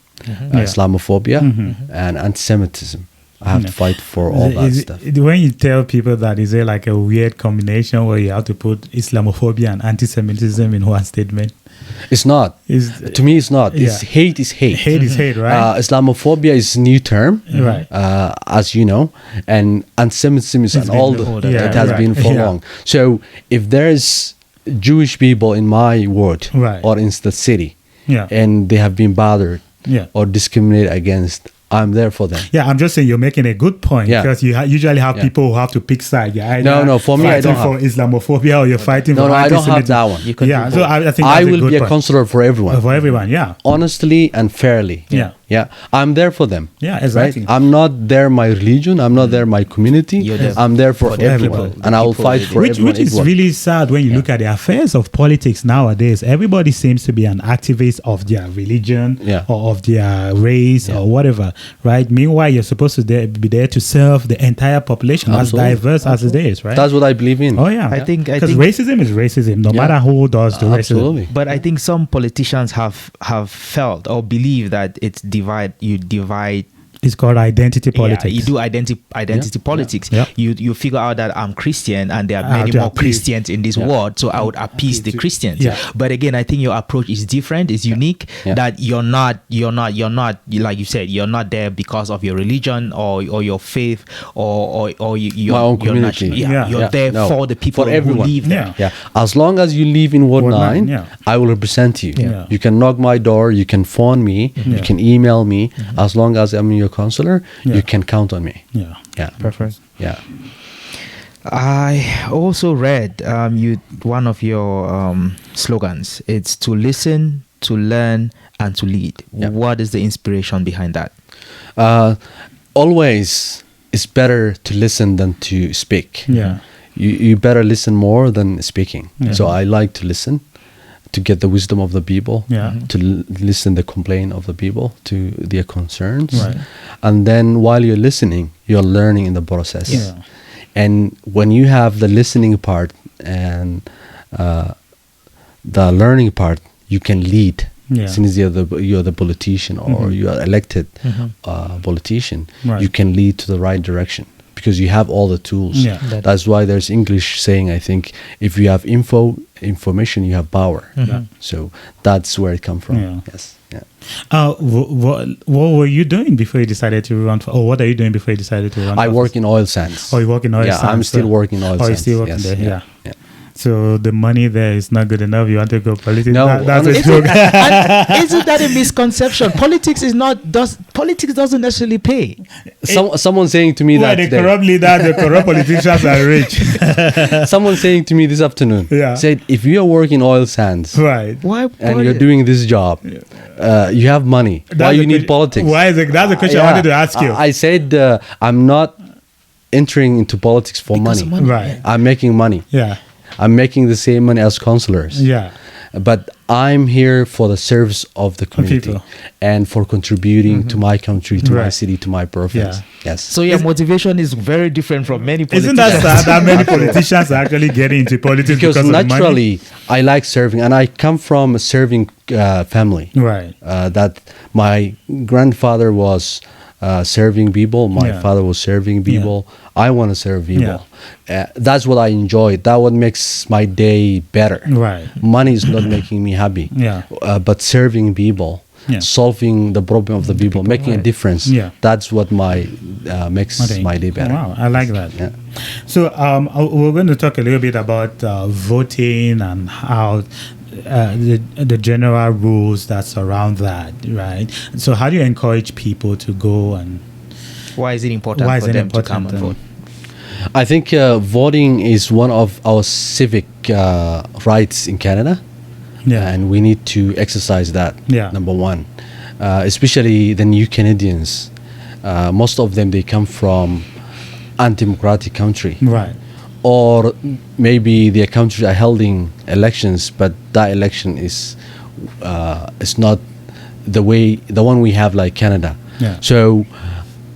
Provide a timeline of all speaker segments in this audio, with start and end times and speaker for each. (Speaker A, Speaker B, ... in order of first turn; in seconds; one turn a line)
Speaker A: 0.2-0.5
Speaker B: 0.5-5.0
Speaker C: 0.5-0.8
Speaker C: 1.4-1.8
Speaker A: 1.6-1.9
Speaker C: 3.5-11.5
Speaker B: 12.1-27.7
Speaker C: 12.7-15.7
Speaker A: 14.9-15.2
Speaker C: 17.5-17.9
Speaker A: 17.5-17.8
Speaker C: 20.7-22.5
Speaker A: 21.2-22.0
Speaker C: 26.5-26.9
Speaker B: 28.3-32.5
Speaker C: 29.8-30.1
Speaker C: 32.4-43.6
Speaker B: 36.6-37.7
Speaker A: 38.8-39.1
Speaker B: 39.1-40.2
Speaker A: 40.2-41.0
Speaker B: 41.2-43.0
Speaker B: 43.6-53.4
Speaker C: 46.8-47.5
Speaker A: 50.2-52.7
Speaker C: 50.4-51.7
Speaker C: 52.5-66.9
Speaker B: 65.2-65.8
Speaker A: 66.0-66.4
Speaker B: 66.7-68.0
Speaker C: 67.5-71.1
Speaker A: 67.9-68.7
Speaker A: 69.7-69.9
Speaker B: 70.5-71.3
Speaker A: 71.3-76.7
Speaker C: 77.0-78.5
Speaker A: 77.9-98.7
Speaker C: 82.4-83.3
Speaker B: 95.5-110.2
Speaker C: 96.4-96.8
Speaker C: 98.4-98.8
Speaker C: 100.3-101.1
Speaker C: 102.2-102.5
Speaker A: 104.6-104.9
Speaker C: 108.6-109.0
Speaker A: 109.4-109.8
Speaker A: 111.4-121.1
Speaker B: 121.8-122.2
Speaker B: 122.7-126.3
Speaker A: 126.3-126.6
Speaker C: 126.3-126.6
Speaker B: 127.0-130.4
Speaker C: 129.2-129.4
Speaker B: 131.1-140.1
Speaker C: 132.5-132.8
Speaker A: 132.6-132.8
Speaker C: 136.3-136.6
Speaker A: 136.3-136.6
Speaker C: 139.9-140.2
Speaker B: 140.7-144.7
Speaker B: 145.6-163.8
Speaker C: 147.9-148.2
Speaker C: 149.8-150.2
Speaker A: 151.0-151.3
Speaker C: 152.6-152.9
Speaker C: 155.7-156.0
Speaker A: 156.0-156.3
Speaker A: 161.0-161.2
Speaker C: 162.9-163.2
Speaker C: 164.3-169.4
Speaker B: 168.9-173.2
Speaker C: 170.0-172.8
Speaker C: 173.6-178.5
Speaker B: 176.3-177.6
Speaker A: 176.8-182.4
Speaker B: 182.8-185.6
Speaker C: 183.9-187.4
Speaker B: 187.3-191.0
Speaker C: 188.9-189.2
Speaker C: 190.9-191.4
Speaker A: 191.4-192.3
Speaker B: 191.8-198.9
Speaker C: 194.7-197.4
Speaker B: 199.7-202.7
Speaker A: 200.9-201.8
Speaker C: 201.4-201.8
Speaker C: 202.7-203.0
Speaker B: 203.4-205.3
Speaker C: 205.1-205.5
Speaker B: 205.9-213.3
Speaker C: 208.5-209.0
Speaker C: 211.4-211.8
Speaker C: 212.5-212.8
Speaker A: 213.3-217.1
Speaker C: 215.5-219.4
Speaker B: 216.6-216.9
Speaker B: 218.4-244.5
Speaker C: 223.1-223.5
Speaker C: 228.0-228.3
Speaker C: 229.1-229.3
Speaker C: 230.5-230.8
Speaker C: 234.7-235.2
Speaker C: 236.7-237.1
Speaker A: 240.3-241.1
Speaker C: 241.4-241.7
Speaker C: 243.6-257.0
Speaker A: 257.8-259.6
Speaker C: 258.3-259.6
Speaker B: 260.5-265.4
Speaker C: 266.1-266.3
Speaker B: 266.1-268.9
Speaker C: 268.1-268.3
Speaker B: 269.4-271.5
Speaker B: 272.0-273.9
Speaker B: 274.6-275.8
Speaker C: 275.8-276.2
Speaker B: 276.6-283.2
Speaker B: 283.8-286.7